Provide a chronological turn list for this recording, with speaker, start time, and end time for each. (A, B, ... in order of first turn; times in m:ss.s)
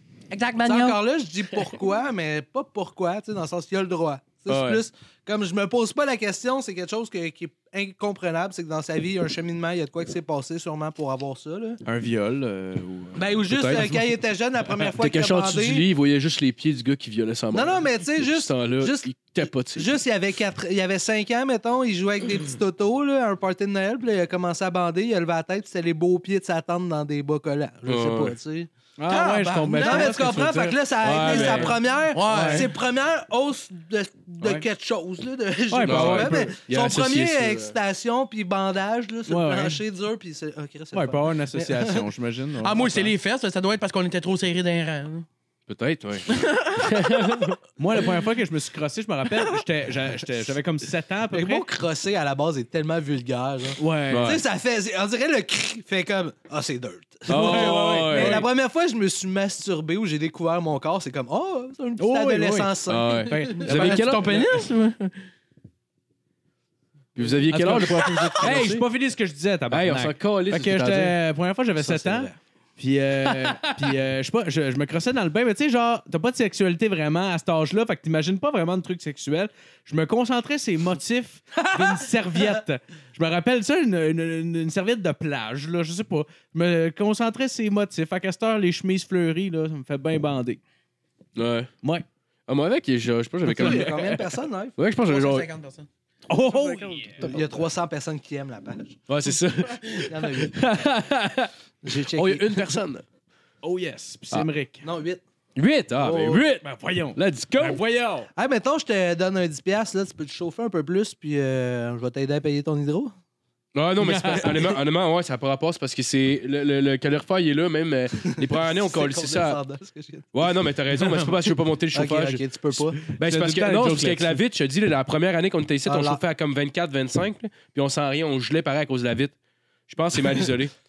0:00.3-0:01.0 A
0:00.5-0:11.8 B
0:04.5-0:04.8 C
0:11.8-0:13.8 D
0:13.1-0:15.9 B
0:13.5-0:14.0 C
0:14.9-0:19.9 C
0:17.5-0:28.7 B
0:27.9-0:28.3 C
0:29.0-0:32.7 D
0:29.1-0:30.3 A
0:29.7-0:42.1 B
0:31.0-0:31.8 C
0:32.1-0:32.7 A
0:35.7-0:36.5 D
0:35.8-0:37.8 C
0:39.3-0:39.8 D
0:40.9-0:43.1 D
0:42.6-0:45.3 A
0:45.7-0:47.6 C
0:46.3-0:47.6 A
0:47.8-0:51.6 D
0:51.3-1:03.6 B
0:53.8-0:54.4 D
0:54.1-0:54.4 C
0:57.3-0:58.4 C
0:57.3-0:58.5 D
1:02.0-1:04.4 D
1:02.9-1:04.5 C
1:03.6-1:05.2 A
1:07.2-1:08.9 C
1:07.5-1:30.6 D
1:08.2-1:08.6 A
1:09.7-1:11.2 C
1:11.8-1:12.3 C
1:13.2-1:13.9 C
1:21.6-1:22.1 B
1:31.4-1:31.7 C
1:32.5-1:34.2 C
1:33.5-1:34.8 B
1:33.5-1:34.1 D
1:34.8-1:35.5 C
1:35.0-1:35.9 A
1:36.3-1:37.4 D
1:36.5-1:37.1 A
1:37.2-1:39.0 B
1:39.1-1:43.0 C
1:40.0-1:40.6 B
1:41.8-1:42.7 B
1:43.6-1:44.9 D
1:44.8-1:45.2 B
1:45.6-1:47.8 C
1:46.0-1:46.4 B
1:46.6-1:48.3 D
1:48.4-1:53.1 B
1:53.7-1:59.6 C
1:54.0-1:54.8 D
1:58.2-2:00.3 B
2:00.3-2:02.4 C
2:01.0-2:01.3 D
2:01.9-2:03.0 B
2:03.0-2:09.3 C
2:03.0-2:04.4 D
2:05.8-2:06.2 B
2:09.9-2:10.7 C